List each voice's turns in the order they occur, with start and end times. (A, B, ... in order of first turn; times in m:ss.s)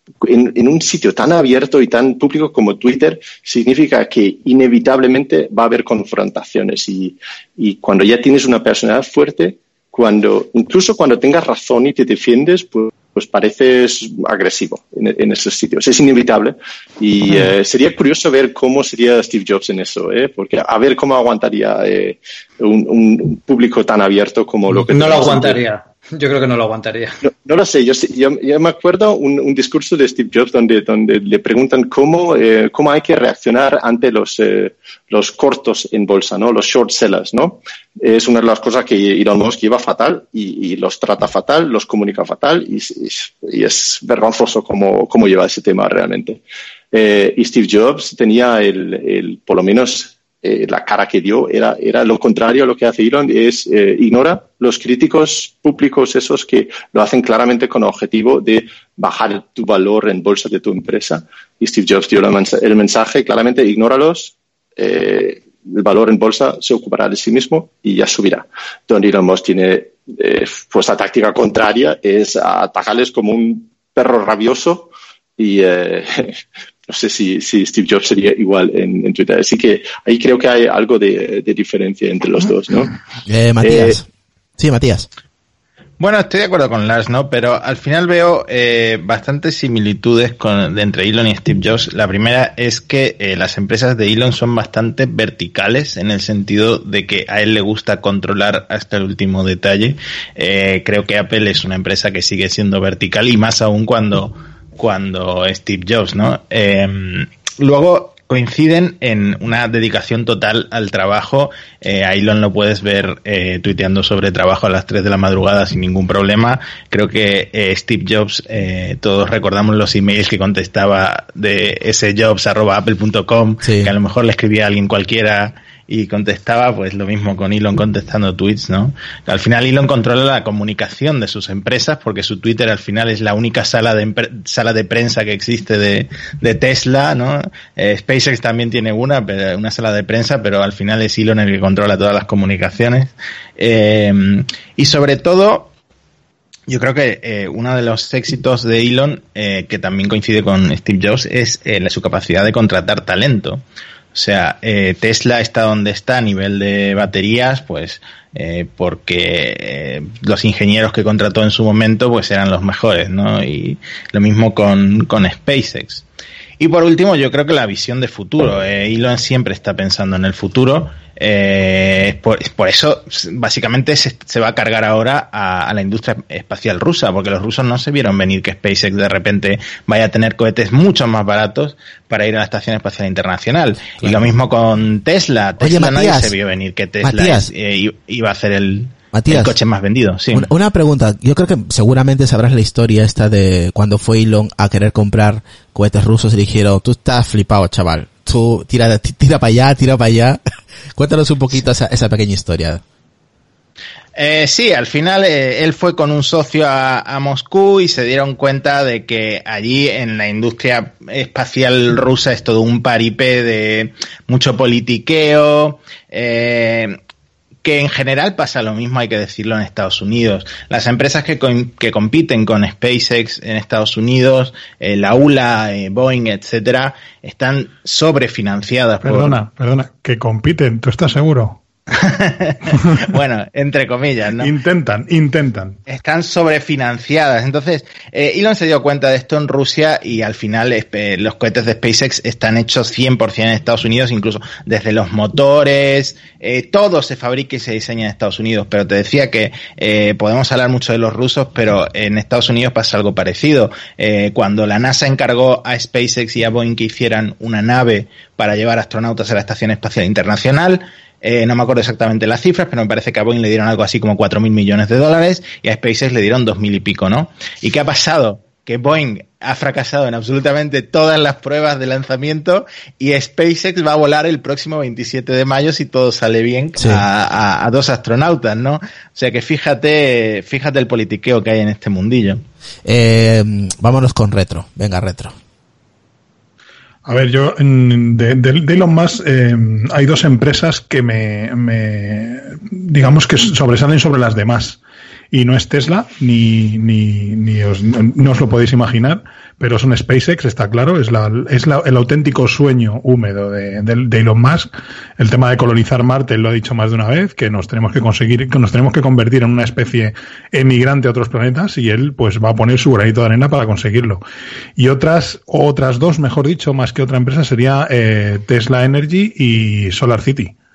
0:00.2-0:25.6 A
0:24.9-0:27.1 B
0:27.2-0:46.4 A
0:46.9-1:22.9 A
1:23.3-1:24.1 C
1:23.6-1:24.0 A
1:24.6-1:25.1 C
1:26.0-2:25.7 D
2:03.6-2:03.9 C
2:26.7-2:33.6 D
2:34.1-2:46.0 D
2:46.6-3:10.5 D
3:04.0-3:04.3 C
3:05.6-3:06.4 C
3:07.0-3:07.5 C
3:09.1-3:09.6 C
3:10.3-3:20.4 C
3:20.9-3:22.8 C
3:24.1-3:37.0 D
3:37.6-3:49.4 D
3:49.0-3:51.6 E
3:51.9-3:54.5 D
3:54.4-3:55.8 E
3:55.9-4:42.4 D
4:36.8-4:37.0 C
4:42.8-4:45.3 C
4:47.0-4:54.8 E
4:55.3-5:14.2 E
5:14.8-5:20.6 E